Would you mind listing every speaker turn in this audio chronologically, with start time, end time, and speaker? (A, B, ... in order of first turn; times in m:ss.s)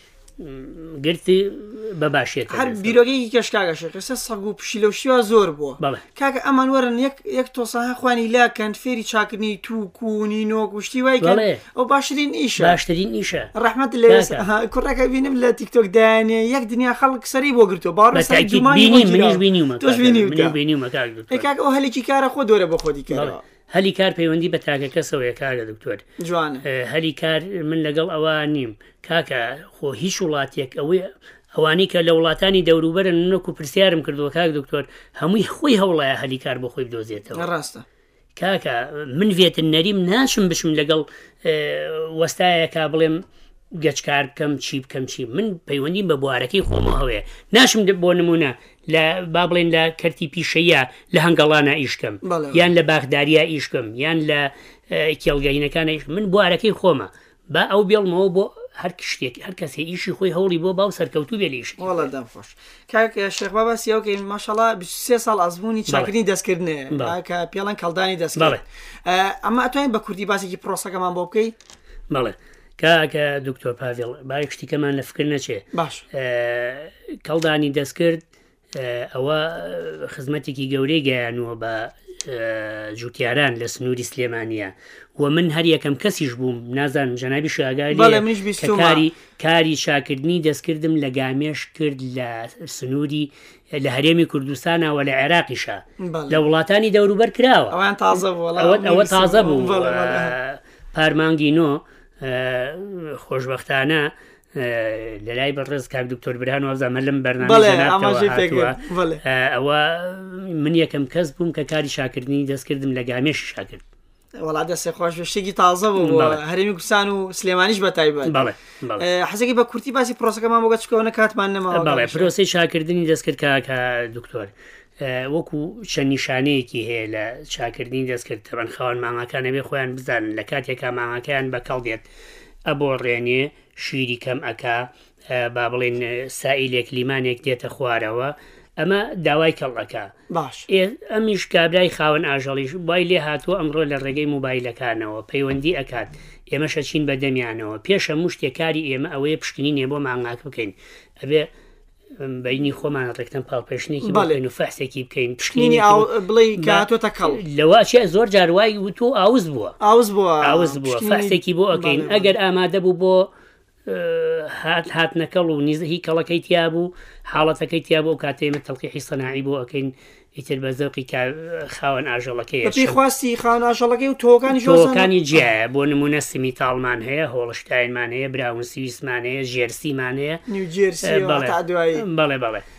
0:00.4-0:03.0 A
0:02.5-0:12.8 B
0:11.2-0:11.6 A
0:12.6-0:13.5 A
0:13.5-0:20.6 B
0:14.1-0:14.5 A
0:18.1-0:21.5 A
0:21.3-0:23.4 B
0:23.1-0:26.0 A
0:26.2-0:26.6 B
0:26.6-0:37.4 A
0:37.3-0:37.8 B
0:38.4-1:02.1 A
0:52.2-0:52.7 B
1:01.8-1:11.5 B
1:06.9-1:07.2 A
1:08.4-1:08.6 A
1:12.1-1:53.8 A
1:15.7-1:16.0 B
1:27.9-1:29.0 B
1:36.0-1:36.4 B
1:37.7-1:40.3 B
1:47.4-1:49.2 B
1:54.4-1:58.5 B
1:56.0-1:56.4 A
1:58.2-1:59.0 A
1:59.0-2:02.3 B
2:01.7-2:12.0 A
2:12.7-2:20.1 A
2:20.3-2:20.7 B
2:20.7-2:31.5 A
2:32.2-2:39.8 A
2:34.0-2:34.4 B
2:35.5-2:37.4 B
2:39.8-2:42.3 B
2:40.4-2:43.3 A
2:43.8-2:53.0 A
2:52.6-2:55.4 B
2:54.5-3:00.4 A
3:00.5-3:02.0 B
3:01.0-3:02.6 A